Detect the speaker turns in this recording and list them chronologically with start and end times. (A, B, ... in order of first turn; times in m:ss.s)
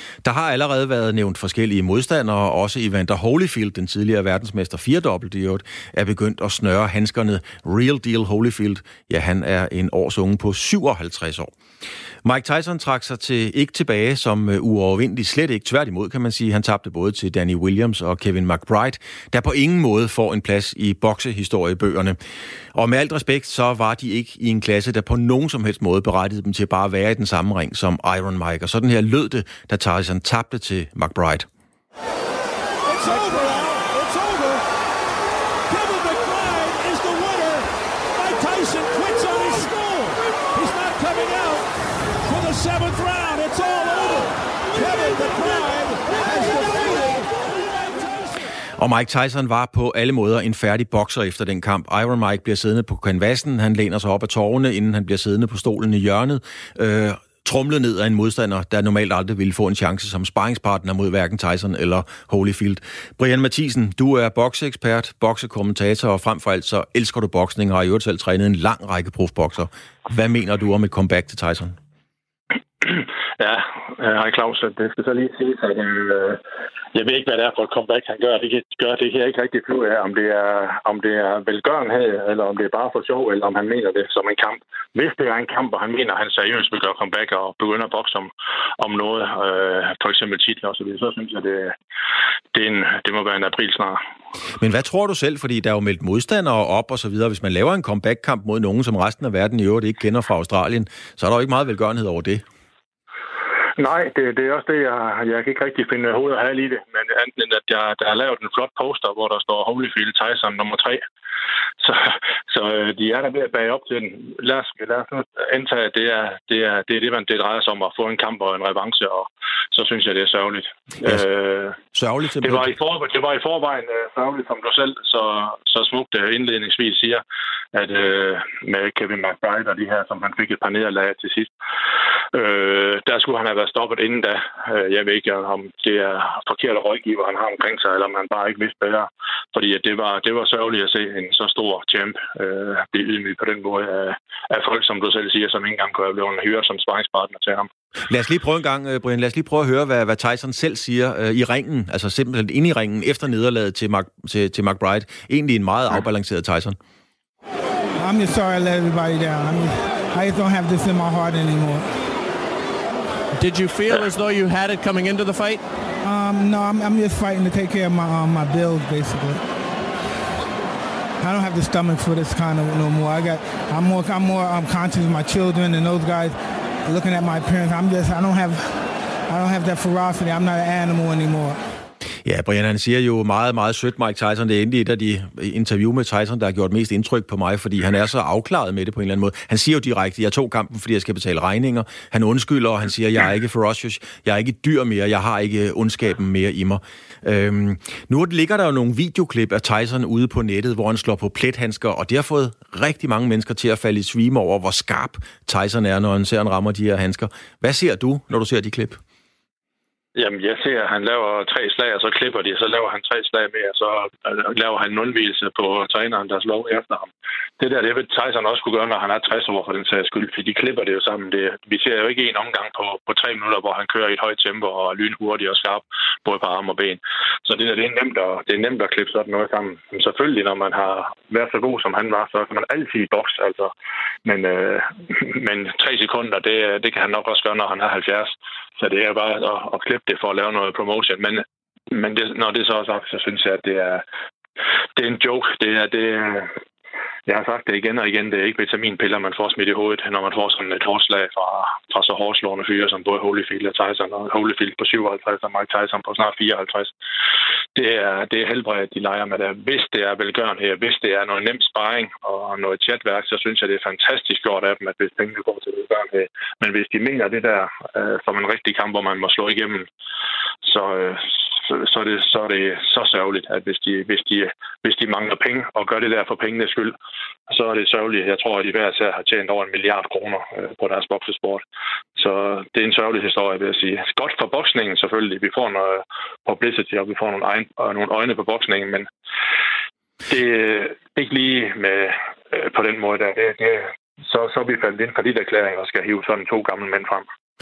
0:00.2-0:11.5 A
0:12.2-0:22.2 A
0:22.7-0:31.5 A
0:32.9-0:34.6 B
0:35.7-0:41.7 B
0:42.2-0:47.4 B
0:48.8-1:11.8 A
1:12.8-1:16.4 C
1:16.9-1:31.8 C
1:32.5-1:34.0 C
1:34.6-1:42.4 A
1:43.8-1:51.0 C
1:51.8-2:01.8 C
2:01.9-2:02.7 A
2:02.4-2:07.2 C
2:07.7-2:11.5 C
2:12.3-2:27.7 C
2:28.1-2:36.8 A
2:38.0-2:41.9 D
2:43.4-2:45.6 E
2:46.0-2:49.4 D
2:51.2-3:01.6 D
3:02.2-3:29.0 A
3:30.2-3:53.7 C
3:54.2-4:04.0 C
4:05.0-4:06.5 C
4:07.3-4:16.9 C
4:17.8-4:29.9 C
4:30.6-4:37.0 C
4:37.5-4:41.6 C
4:42.2-4:49.1 C
4:50.3-4:57.3 C